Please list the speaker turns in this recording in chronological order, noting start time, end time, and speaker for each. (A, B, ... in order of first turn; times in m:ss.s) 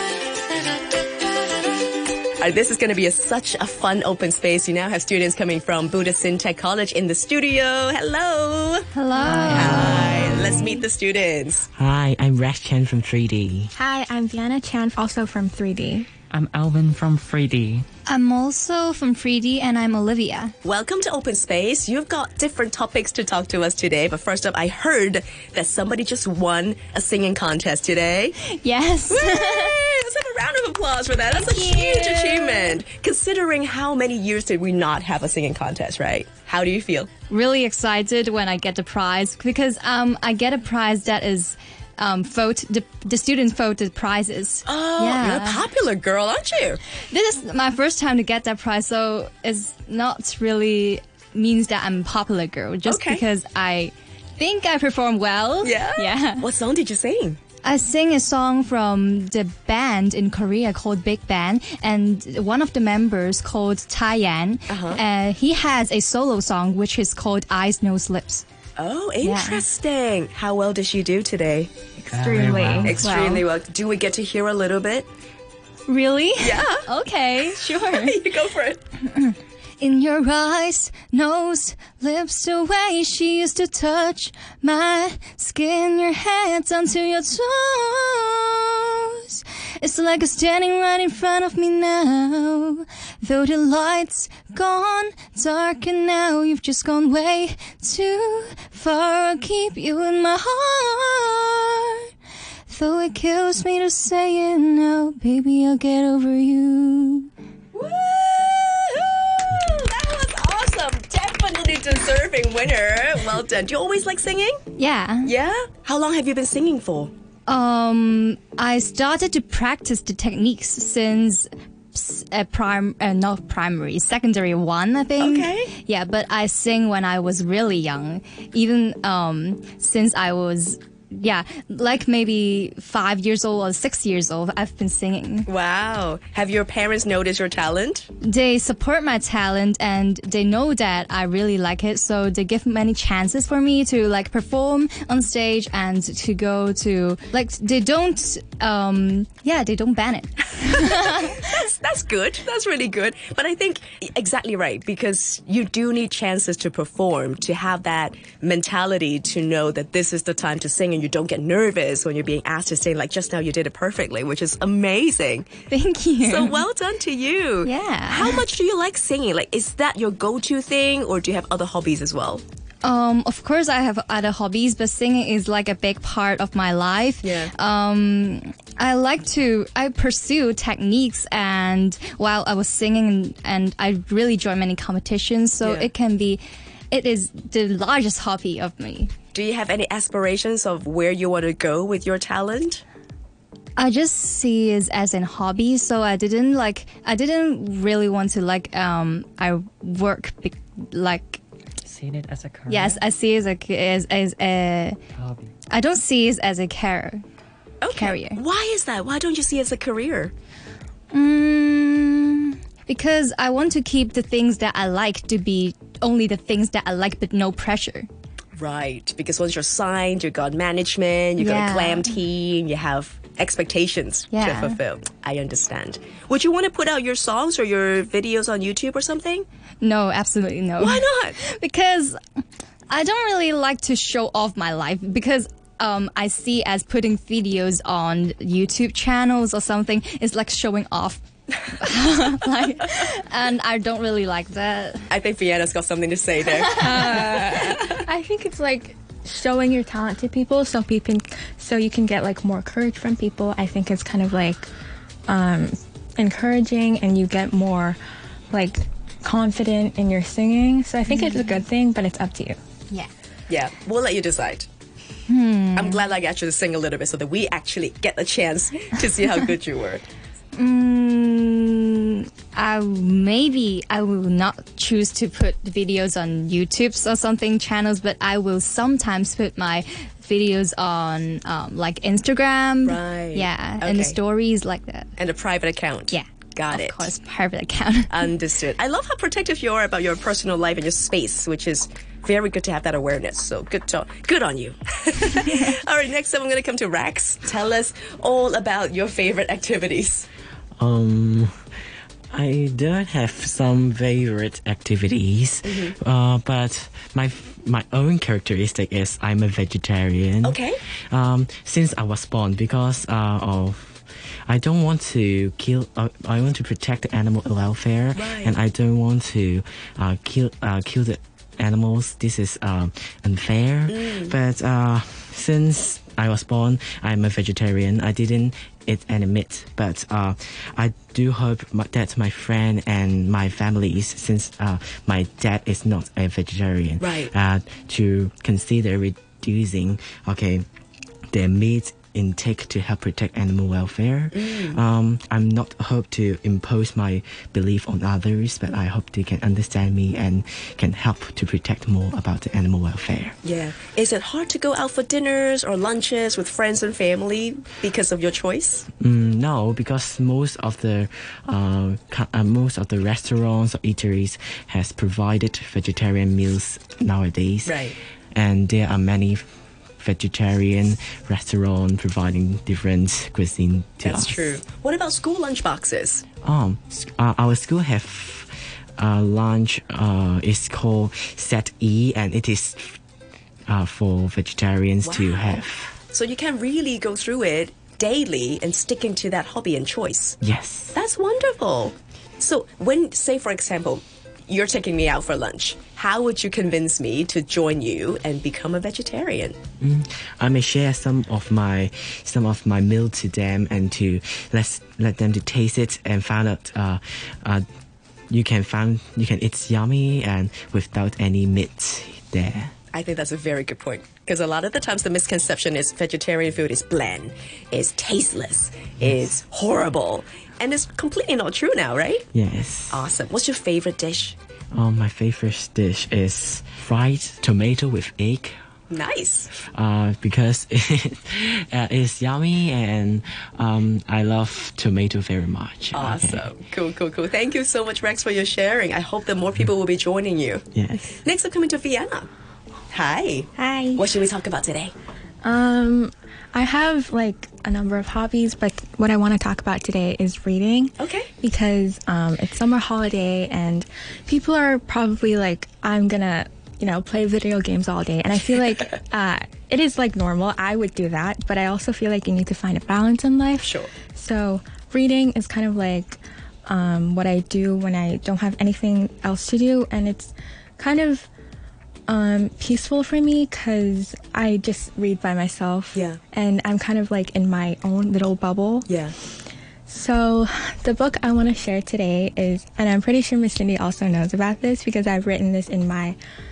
0:02.4-0:08.9 A
0:08.9-0:10.2 B
0:09.3-0:10.4 C
0:09.5-0:11.6 A
0:11.7-0:13.7 D
0:13.7-0:16.1 E
0:16.3-0:17.8 C
0:18.0-0:20.5 B
0:20.6-0:28.4 A
0:28.4-0:29.8 B
0:29.1-0:37.1 A
0:31.4-0:32.8 B
0:37.3-0:45.6 B
0:44.6-0:46.8 A
0:47.1-0:56.5 B
0:52.8-0:53.2 A
0:55.6-0:57.4 A
0:57.6-1:08.4 B
1:04.7-1:05.0 A
1:08.8-1:11.9 A
1:09.2-1:09.6 B
1:12.0-1:13.0 E
1:12.1-1:13.1 D
1:12.8-1:15.1 A
1:13.0-1:13.4 B
1:15.9-1:18.2 B
1:16.4-1:16.8 A
1:17.9-1:18.8 A
1:19.0-1:42.1 B
1:42.7-1:47.3 B
1:47.7-1:54.6 A
1:54.8-1:55.3 B
1:55.2-1:57.1 A
1:57.5-2:15.5 B
2:05.2-2:05.7 A
2:15.5-2:18.1 A
2:18.2-2:31.4 B
2:31.0-2:45.5 A
2:45.7-2:46.6 B
2:46.2-2:52.4 A
2:47.6-2:48.4 B
2:52.8-3:09.1 B
2:57.2-2:57.5 A
3:05.6-3:05.9 A
3:09.3-3:12.8 A
3:13.8-3:21.4 B
3:21.8-3:23.0 C
3:22.7-3:25.0 B
3:25.2-3:25.5 C
3:25.7-3:27.2 B
3:27.8-3:30.3 A
3:27.9-3:28.4 B
3:31.1-3:38.1 B
3:38.6-3:49.4 A
3:41.4-3:42.2 B
3:44.3-3:44.8 B
3:49.8-3:52.2 B
3:50.8-3:51.4 A
3:52.9-4:05.1 B
4:05.1-4:07.3 A
4:06.7-4:14.7 E
4:15.3-4:18.0 E
4:18.5-4:22.6 E
4:21.1-4:21.5 B
4:23.5-4:24.7 A
4:25.3-4:26.0 B
4:25.7-4:30.0 A
4:30.5-4:45.1 B
4:42.8-4:44.2 A
4:45.2-4:47.1 A
4:46.1-4:48.3 B
4:48.1-5:00.3 A
5:00.8-5:01.5 D
5:02.3-5:40.6 D
5:05.6-5:06.0 A
5:10.4-5:10.8 A
5:18.1-5:18.5 A
5:23.9-5:24.3 A
5:37.0-5:37.3 A
5:41.3-5:53.4 D
5:44.3-5:44.8 A
5:53.4-5:58.9 A
5:59.0-6:07.8 D
6:07.6-6:08.0 A
6:08.3-6:09.4 D
6:10.0-6:14.6 D
6:14.0-6:16.2 A
6:16.4-6:23.0 D
6:23.7-6:26.0 D
6:25.0-6:25.6 A
6:26.1-6:30.4 A
6:30.4-6:30.9 D
6:30.9-6:39.6 A
6:39.8-6:47.6 D
6:48.3-6:52.7 D
6:52.9-7:02.2 A
7:02.3-7:03.0 D
7:02.9-7:04.4 A
7:04.7-7:08.6 D
7:08.9-7:09.5 A
7:09.6-7:16.5 D
7:15.9-7:20.6 A
7:20.8-7:21.2 D
7:21.2-7:22.3 A
7:22.9-7:24.9 A
7:23.6-7:24.1 E
7:25.4-7:51.3 E
7:31.0-7:31.3 A
7:43.6-7:44.0 A
7:52.1-7:58.9 E
7:55.9-7:56.2 A
7:58.8-7:59.1 A
7:59.9-8:06.2 E